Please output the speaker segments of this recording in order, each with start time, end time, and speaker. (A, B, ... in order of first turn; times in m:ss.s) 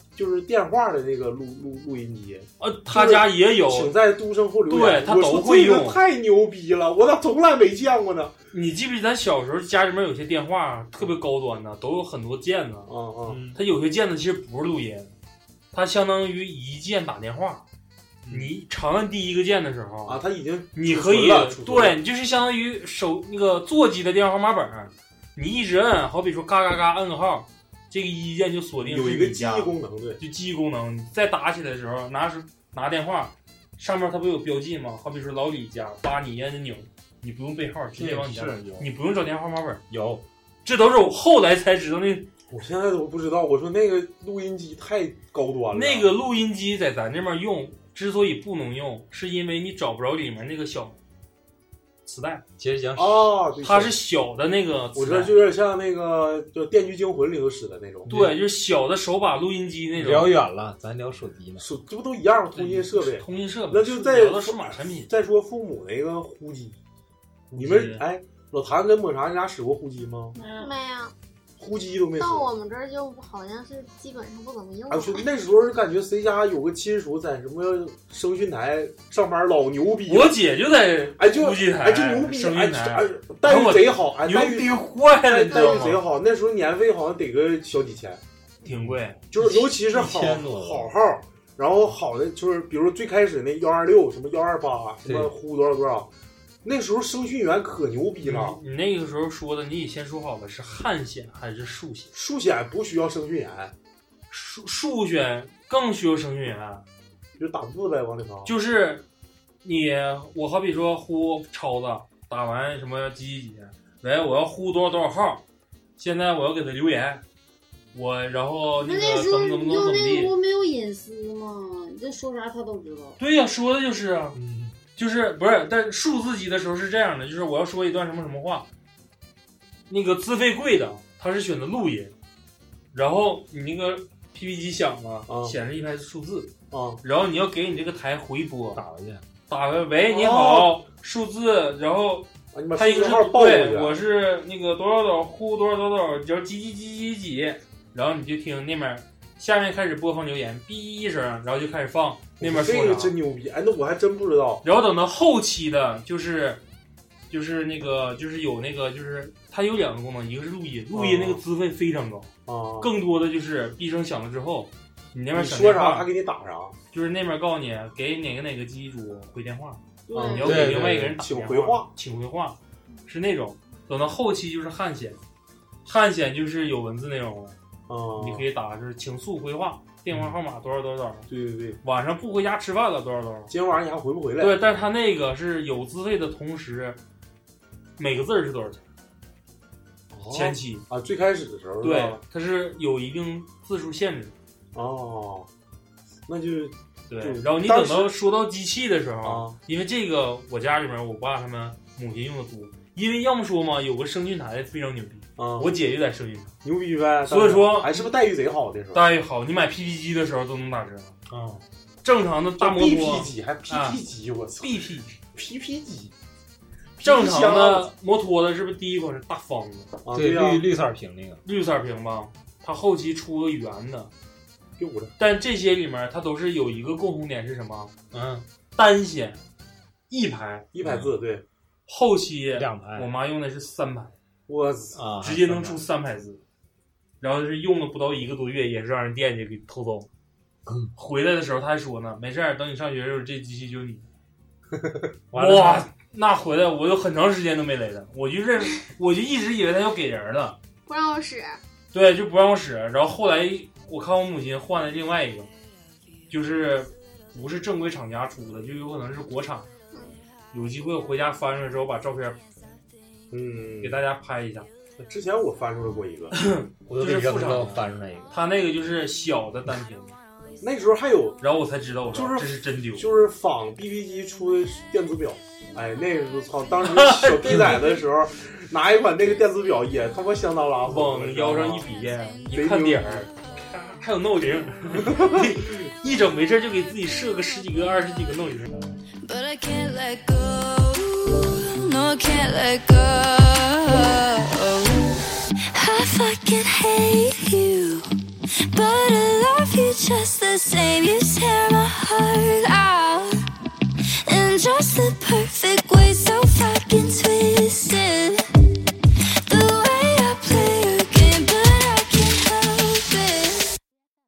0:00.2-0:08.3 A
0:02.6-0:03.9 B
0:04.7-0:06.0 B
0:08.5-0:12.9 B
0:12.9-0:13.4 A
0:13.3-0:13.6 C
0:13.6-0:15.1 B
0:15.7-0:17.6 B
0:18.3-0:18.5 C
0:18.3-0:20.2 B
0:20.0-0:22.0 A
0:20.7-0:39.8 B
0:28.8-0:30.2 A
0:37.9-0:38.9 C
0:39.9-0:40.2 C
0:40.6-0:42.3 B
0:42.5-0:46.1 A
0:45.7-0:51.0 B
0:52.0-0:52.4 B
0:52.6-0:53.3 C
0:53.0-0:54.0 A
0:53.6-0:55.4 B
0:54.9-0:58.1 A
0:58.0-0:58.4 C
0:58.1-1:00.4 B
1:00.0-1:01.7 C
1:01.6-1:06.8 A
1:02.6-1:05.1 B
1:07.5-1:08.0 B
1:07.6-1:10.4 A
1:10.3-1:10.7 D
1:10.6-1:11.1 E
1:11.6-1:12.5 A
1:12.2-1:15.2 E
1:14.9-1:20.4 A
1:20.0-1:26.0 B
1:21.2-1:28.2 A
1:28.6-1:29.2 B
1:28.7-1:30.9 C
1:29.3-1:36.1 A
1:35.0-1:35.3 C
1:36.6-1:38.6 A
1:38.2-1:42.1 B
1:42.1-1:43.7 A
1:44.3-1:46.8 B
1:47.4-1:48.5 A
1:48.4-1:49.0 B
1:49.6-1:55.4 B
1:56.0-1:57.2 B
1:57.9-2:00.3 B
1:58.8-2:03.2 D
2:03.2-2:04.4 B
2:04.3-2:04.8 C
2:04.9-2:08.7 B
2:09.9-2:12.1 B
2:12.9-2:18.8 B
2:15.3-2:15.6 A
2:16.7-2:17.0 A
2:18.7-2:19.2 C
2:19.5-2:33.1 B
2:20.0-2:20.8 A
2:22.5-2:24.0 A
2:32.4-2:34.6 A
2:34.6-2:36.6 B
2:37.3-2:46.1 B
2:40.9-2:41.4 A
2:42.4-2:42.9 A
2:45.3-2:46.8 A
2:46.9-2:55.2 B
2:50.1-2:50.5 D
2:50.1-2:51.9 A
2:50.4-2:51.1 C
2:55.8-2:57.6 B
2:57.9-2:58.5 A
2:58.2-3:01.3 B
3:01.3-3:01.8 A
3:01.8-3:03.5 B
3:03.5-3:04.6 A
3:04.4-3:07.0 B
3:08.0-3:08.8 B
3:10.1-3:12.2 A
3:10.3-3:10.8 B
3:11.8-3:14.3 B
3:14.7-3:15.5 A
3:16.3-3:18.1 A
3:17.1-3:26.6 B
3:19.2-3:19.6 A
3:25.4-3:25.7 A
3:26.6-3:29.1 A
3:27.3-3:28.1 B
3:28.9-3:31.2 B
3:31.3-3:31.6 C
3:32.0-3:34.0 B
3:32.6-3:34.8 A
3:34.6-3:35.2 B
3:35.3-3:36.1 A
3:37.0-3:37.9 A
3:37.0-3:40.0 B
3:40.0-3:40.7 A
3:40.1-3:41.4 C
3:41.4-3:44.1 B
3:44.8-3:45.1 A
3:45.2-3:47.9 B
3:48.1-3:48.4 C
3:48.8-3:49.4 B
3:50.1-3:50.7 B
3:50.7-3:51.4 A
3:50.8-3:51.1 C
3:51.9-3:54.1 B
3:52.6-3:53.1 C
3:54.5-3:55.0 A
3:54.9-3:55.8 C
3:55.2-3:56.4 B
3:57.2-4:00.1 B
4:01.0-4:04.0 B
4:05.3-4:05.9 C
4:05.3-4:10.6 B
4:10.9-4:11.6 E
4:11.9-4:15.5 B
4:16.3-4:19.7 B
4:20.5-4:22.4 B
4:23.3-4:24.0 A
4:23.8-4:24.7 B
4:25.0-4:26.4 A
4:26.3-4:30.1 B
4:26.9-4:28.3 C
4:30.6-4:31.4 A
4:31.4-4:33.1 B
4:32.1-4:41.9 A
4:36.8-4:38.0 B
4:40.9-4:48.8 B
4:42.5-4:43.3 A
4:44.9-4:45.7 A
4:49.2-4:58.1 F
4:58.7-5:03.4 F
5:04.2-5:08.5 F
5:09.4-5:13.8 F